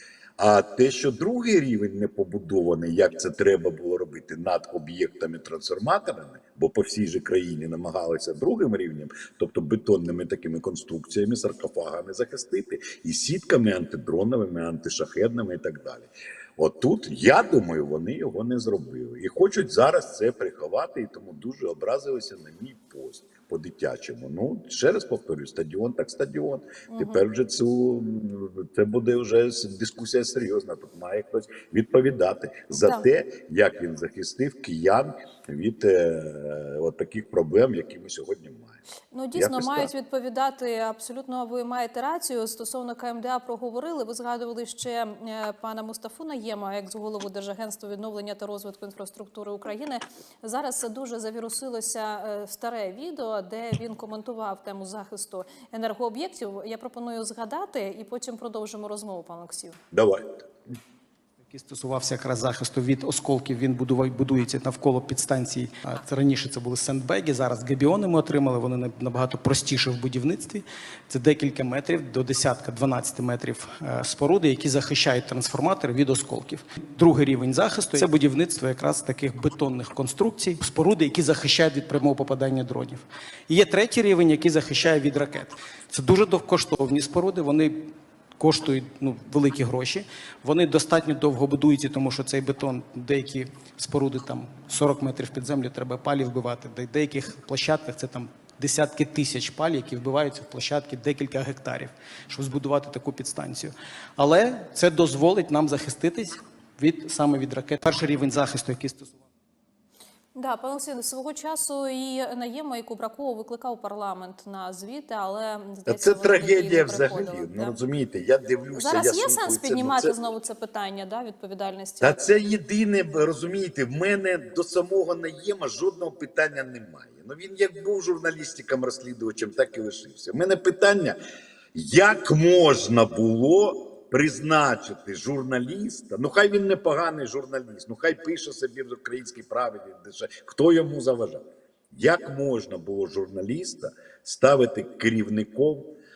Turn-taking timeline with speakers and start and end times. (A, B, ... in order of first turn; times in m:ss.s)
0:00.4-0:38.8 A
0:26.9-0:27.2 B
0:32.7-0:33.0 B
0:39.1-0:59.8 B
0:39.4-0:39.9 A
0:59.9-1:00.3 A
1:01.5-1:49.1 C
1:50.4-1:57.7 B
1:55.9-2:00.1 A
1:58.7-2:02.2 B
2:02.0-2:11.2 A
2:11.7-2:25.9 A